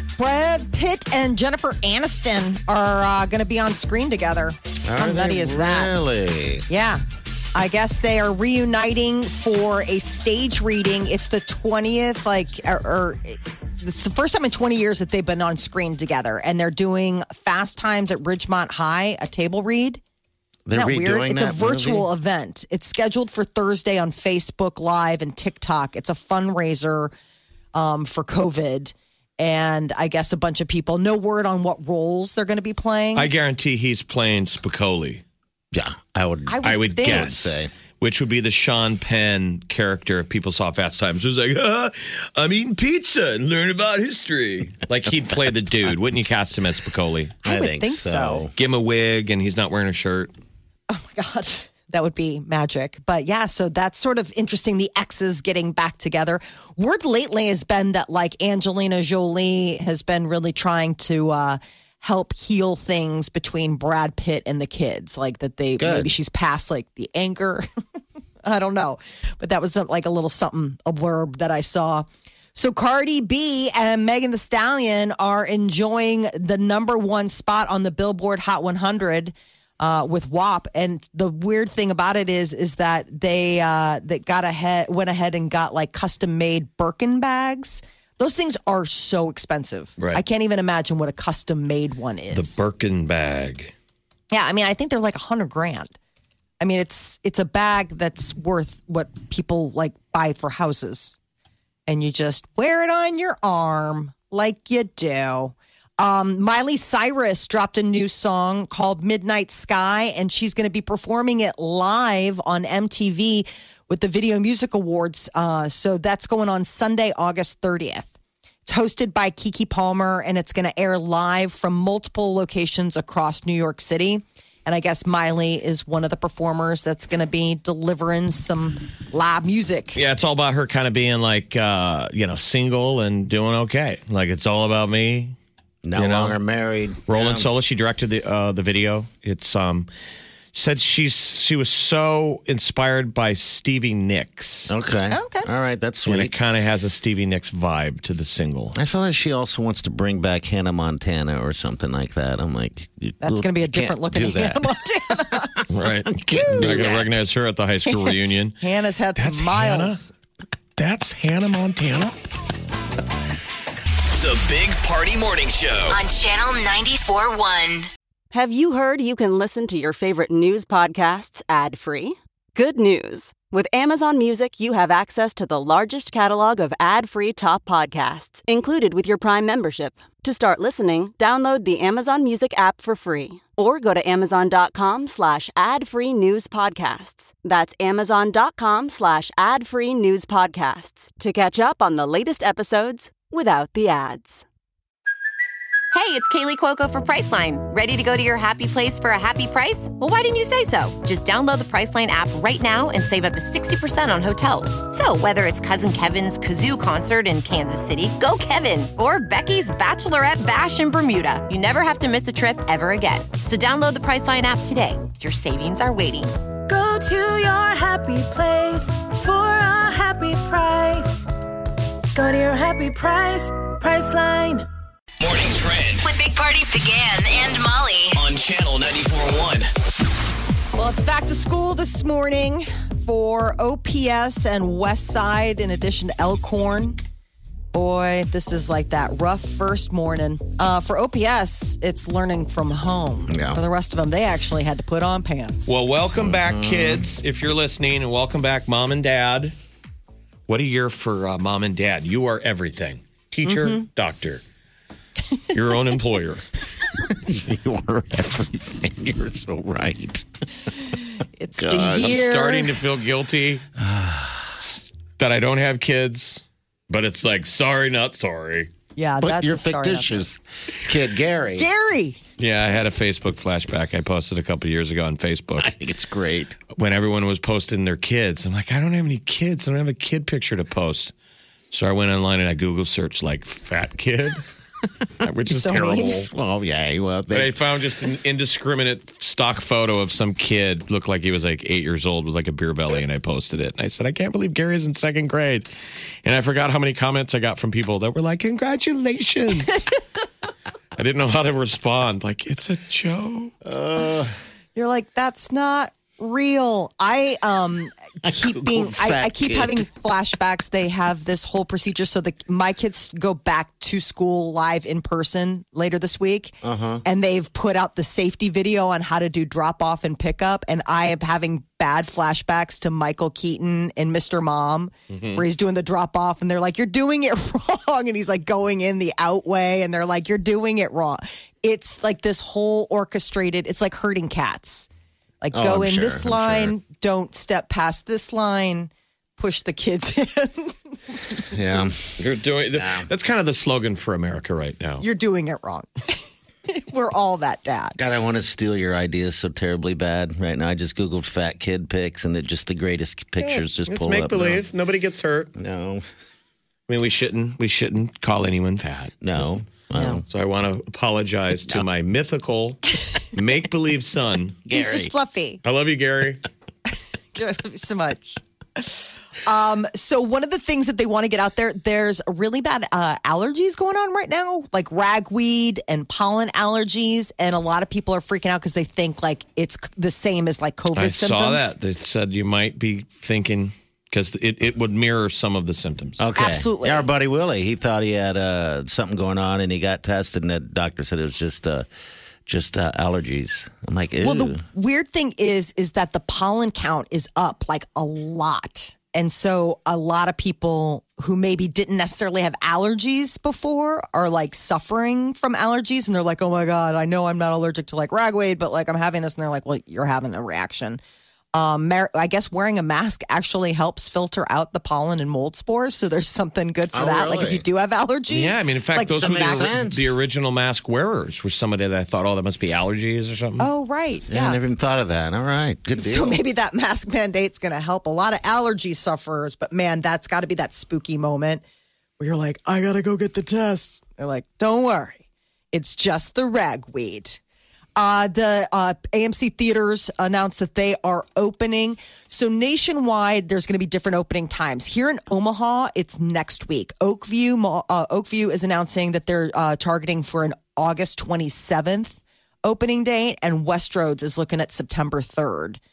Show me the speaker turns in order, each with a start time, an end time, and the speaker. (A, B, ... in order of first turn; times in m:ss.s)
0:00.2-0:05.9 A
0:04.9-0:06.6 B
0:06.7-0:07.0 A
0:07.6-0:20.0 A
0:20.7-0:22.1 B
0:20.7-0:27.1 A
0:27.7-0:33.3 A
0:33.2-0:35.2 C
0:35.7-0:37.7 B
0:36.5-0:37.3 A
0:36.6-0:47.4 C
0:47.4-0:48.4 A
0:47.4-0:48.5 B
0:48.6-0:50.3 C
0:50.9-1:07.6 A
1:05.8-1:06.1 B
1:08.4-1:32.6 A
1:32.3-1:33.7 C
1:34.3-1:36.0 A
1:36.6-1:41.2 A
1:41.9-1:58.1 A
1:58.7-2:10.0 A
2:10.0-2:15.4 C
2:15.8-2:17.5 B
2:16.0-2:16.4 C
2:17.1-2:19.9 C
2:20.5-2:24.7 C
2:24.7-2:26.4 B
2:25.1-2:25.5 A
2:26.1-2:28.8 C
2:28.7-2:37.1 B
2:33.2-2:35.5 A
2:35.7-2:38.6 C
2:36.4-2:36.9 A
2:37.9-2:40.1 A
2:39.2-2:40.0 C
2:40.8-2:42.2 C
2:44.2-2:46.0 D
2:45.9-2:47.9 E
2:48.3-3:14.5 F
3:15.9-3:36.3 G
3:36.7-3:41.3 H
3:42.1-3:44.7 H
3:45.2-3:46.1 D
3:46.0-3:48.2 E
3:48.2-3:49.7 D
3:50.8-3:57.0 A
3:57.7-4:05.8 A
4:03.3-4:03.6 B
4:05.7-4:09.6 C
4:06.1-4:07.1 B
4:10.5-4:14.4 C
4:13.5-4:13.8 A
4:15.5-4:16.4 C
4:17.0-4:20.3 B
4:21.4-4:22.7 A
4:21.6-4:22.2 B
4:21.9-4:23.6 C
4:23.8-4:24.6 B
4:24.6-4:28.7 C
4:29.0-4:30.2 A
4:29.2-4:31.7 B
4:31.6-4:32.2 A
4:32.4-4:35.8 C
4:35.6-4:36.6 B
4:36.7-4:41.1 C
4:41.7-4:44.4 C
4:45.2-4:46.3 C
4:45.5-4:46.2 A
4:46.0-4:47.6 B
4:47.3-4:55.7 C
4:56.2-5:00.0 C
5:01.0-5:03.5 C
5:03.6-5:04.4 B
5:04.8-5:34.9 A
5:08.2-5:09.9 B
5:16.6-5:17.0 B
5:25.1-5:25.4 C
5:35.4-5:40.8 A
5:35.5-5:36.8 B
5:41.5-5:43.1 B
5:42.2-5:45.0 C
5:45.0-5:48.0 A
5:48.0-5:54.6 B
5:53.4-5:55.5 C
5:55.6-5:56.0 B
5:56.9-5:59.2 C
5:59.2-6:00.2 B
6:00.0-6:00.2 A
6:00.3-6:04.6 C
6:04.7-6:05.1 B
6:04.7-6:05.6 A
6:05.6-6:06.4 C
6:07.3-6:21.7 A
6:21.0-6:26.2 C
6:26.2-6:31.9 B
6:26.4-6:27.1 A
6:32.5-6:34.6 B
6:34.2-6:51.0 A
6:51.5-6:59.8 A
6:56.9-6:57.6 B
6:58.3-7:03.7 C
6:59.2-7:00.2 B
7:03.6-7:04.6 A
7:04.3-7:06.4 B
7:06.0-7:11.6 A
7:12.2-7:17.4 A
7:18.0-7:35.8 A